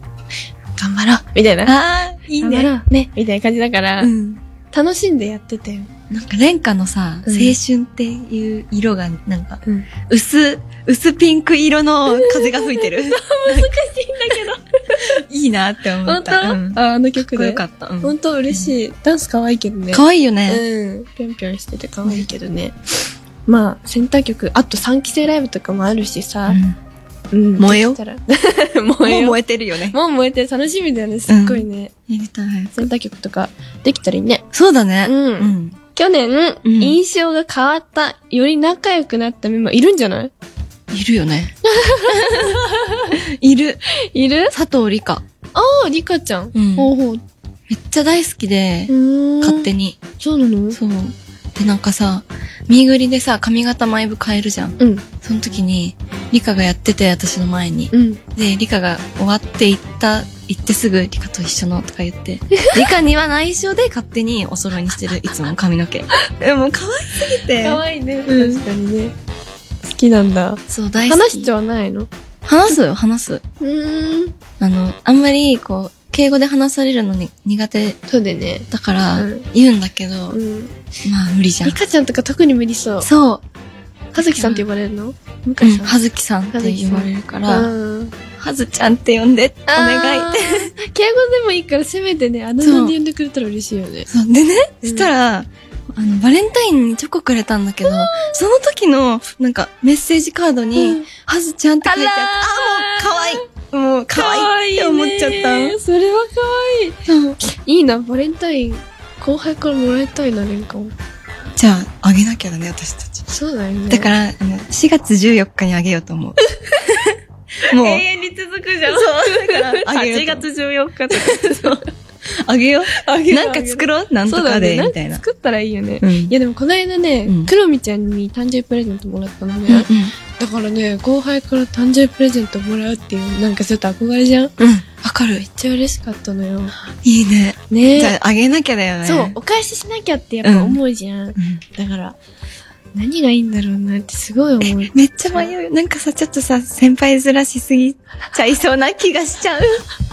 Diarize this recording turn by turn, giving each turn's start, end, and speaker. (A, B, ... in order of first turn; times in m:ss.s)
0:00.8-0:01.8 A
0:01.7-0:02.7 B
0:02.4-0:04.1 A
0:04.0-0:04.4 B
0:04.7-0:05.9 A
0:06.1-0:13.7 B
0:07.2-0:07.6 A
0:12.1-0:15.2 A
0:15.0-0:18.7 B
0:16.0-0:22.8 A
0:19.9-0:20.6 B
0:23.5-0:26.6 A
0:26.5-0:26.8 B
0:27.3-0:29.4 A
0:27.6-0:28.0 B
0:29.0-0:30.0 B
0:29.9-0:31.9 A
0:31.3-0:32.9 B
0:32.8-0:34.5 A
0:34.5-0:35.8 B
0:35.0-0:40.3 A
0:36.6-0:37.0 B
0:40.9-0:41.6 B
0:41.6-0:43.2 A
0:42.1-0:42.6 B
0:43.1-0:43.8 B
0:43.9-0:44.5 A
0:44.5-0:45.2 B
0:45.6-0:47.2 A
0:46.5-0:46.9 B
0:47.7-0:50.0 B
0:48.9-0:50.8 A
0:50.7-1:08.7 B
0:54.8-0:55.0 A
0:57.9-0:58.2 A
1:02.5-1:02.8 A
1:07.6-1:09.2 A
1:09.8-1:12.1 A
1:10.7-1:11.5 B
1:12.4-1:13.4 B
1:13.6-1:14.4 A
1:14.6-1:18.0 B
1:18.1-1:19.5 A
1:18.7-1:20.4 B
1:20.3-1:20.8 A
1:21.0-1:21.8 B
1:21.6-1:23.1 A
1:23.0-1:23.4 B
1:24.1-1:26.0 A
1:24.2-1:24.7 B
1:25.6-1:27.7 B
1:26.5-1:28.2 A
1:28.4-1:30.7 B
1:29.7-1:34.1 A
1:32.6-1:33.0 B
1:34.1-1:45.8 B
1:34.8-1:35.1 A
1:37.8-1:38.4 A
1:40.8-1:41.1 A
1:41.8-1:43.4 A
1:44.1-1:50.9 A
1:47.1-1:47.4 B
1:51.6-1:53.2 B
1:53.3-1:54.1 A
1:53.9-1:58.0 B
1:56.4-1:56.9 A
1:57.6-2:01.9 A
1:58.9-2:00.5 B
2:01.1-2:05.2 B
2:02.9-2:14.6 A
2:06.0-2:06.3 B
2:07.3-2:07.5 B
2:09.7-2:10.2 B
2:14.6-2:15.5 B
2:15.4-2:16.8 A
2:17.0-2:19.4 B
2:17.7-2:18.2 A
2:19.0-2:22.2 A
2:20.4-2:20.8 B
2:21.4-2:21.6 B
2:22.9-2:25.5 A
2:24.6-2:29.8 B